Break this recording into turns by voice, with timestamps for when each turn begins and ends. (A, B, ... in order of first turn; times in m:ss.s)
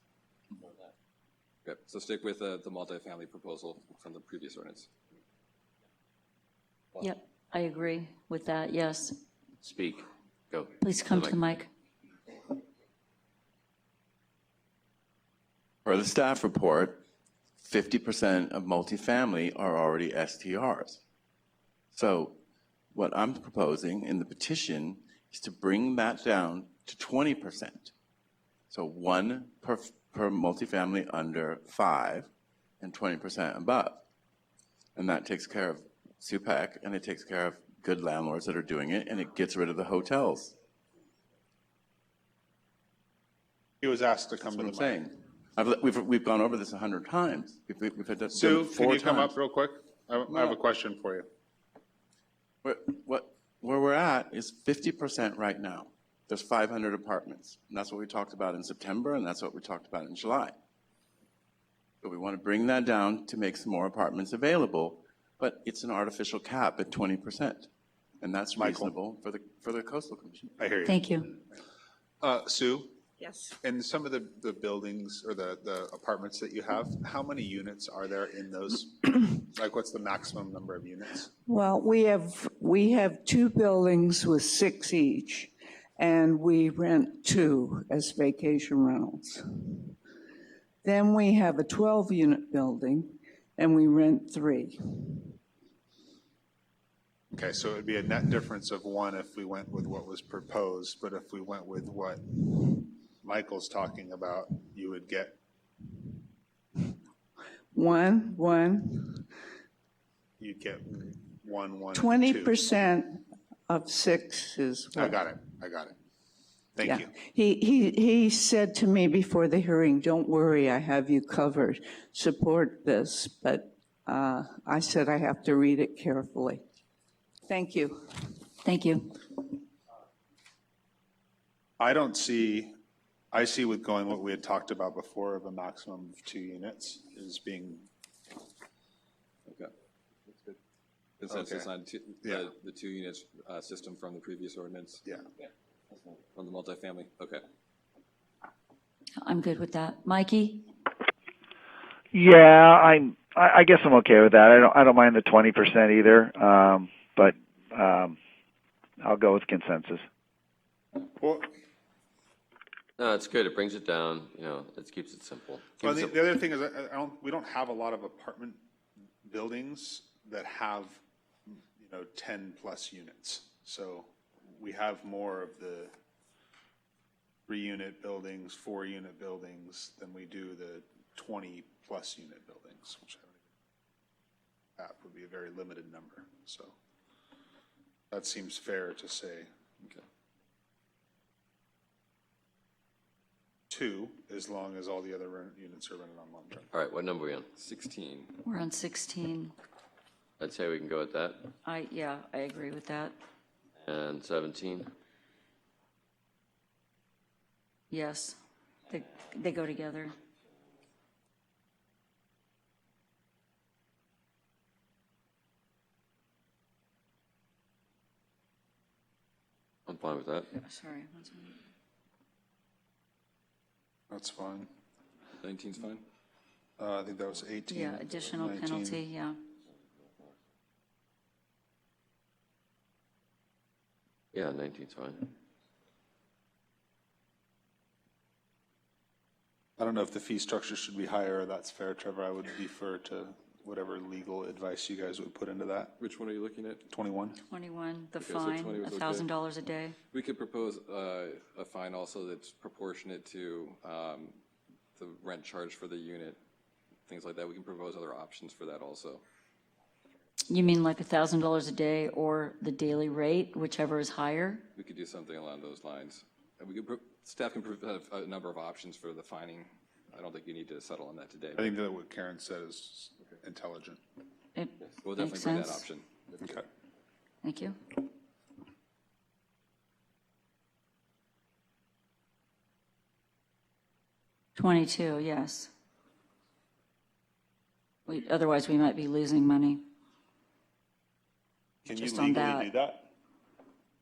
0:01.6-0:04.9 A
0:07.0-0:09.2 B
0:09.6-0:11.5 C
0:10.8-0:11.7 B
0:15.8-0:17.0 D
0:17.6-0:21.0 D
0:21.9-0:22.3 D
0:22.9-0:27.9 D
0:28.7-0:32.3 D
0:32.8-0:34.0 D
0:35.0-0:40.5 D
0:43.8-0:45.0 E
0:44.5-0:49.4 D
0:48.3-0:51.3 E
0:50.3-0:50.6 D
0:52.6-1:00.5 D
1:02.0-1:07.7 D
1:08.2-1:10.5 D
1:08.5-1:08.9 E
1:10.6-1:11.2 E
1:10.8-1:11.2 B
1:12.2-1:12.9 E
1:13.6-1:21.3 E
1:21.4-1:30.0 F
1:30.8-1:35.4 F
1:37.3-1:45.4 E
1:47.7-1:49.3 F
1:50.4-1:52.7 E
1:51.9-1:55.2 F
1:54.9-1:55.9 E
1:56.7-1:57.1 E
1:56.8-2:06.6 F
2:07.5-2:08.4 F
2:08.6-2:09.2 B
2:11.8-2:12.7 E
2:13.3-2:17.9 E
2:21.2-2:25.0 A
2:21.3-2:21.7 E
2:26.3-2:27.4 A
2:29.2-2:30.7 B
2:32.1-2:38.2 G
2:39.0-2:40.0 G
2:41.2-2:41.5 E
2:43.0-2:46.2 C
2:45.8-2:48.6 E
2:49.2-2:55.9 E
2:57.5-3:03.3 E
3:04.8-3:06.7 E
3:08.1-3:09.5 E
3:13.7-3:16.7 E
3:16.7-3:17.5 C
3:17.6-3:18.3 A
3:18.4-3:19.5 B
3:20.4-3:21.5 C
3:21.6-3:23.1 B
3:23.8-3:24.9 C
3:27.9-3:28.4 B
3:28.9-3:30.2 B
3:39.9-3:40.5 C
3:40.5-3:41.5 B
3:44.1-3:44.7 E
3:45.4-3:46.0 A
3:46.8-3:49.0 E
3:47.7-3:49.4 B
3:54.3-3:55.3 C
3:59.8-4:06.0 E
4:06.0-4:06.8 A
4:06.9-4:07.4 E
4:07.5-4:10.0 B
4:08.2-4:09.3 A
4:10.1-4:14.3 A
4:15.0-4:16.4 A
4:17.0-4:19.2 A
4:20.5-4:24.6 B
4:24.7-4:31.7 A
4:31.6-4:34.0 E
4:34.5-4:35.8 B
4:35.0-4:36.1 A
4:36.4-4:36.6 E
4:37.4-4:37.8 B
4:44.5-4:45.7 B
4:48.0-4:49.8 B
4:51.8-4:53.0 E
4:52.0-4:52.7 B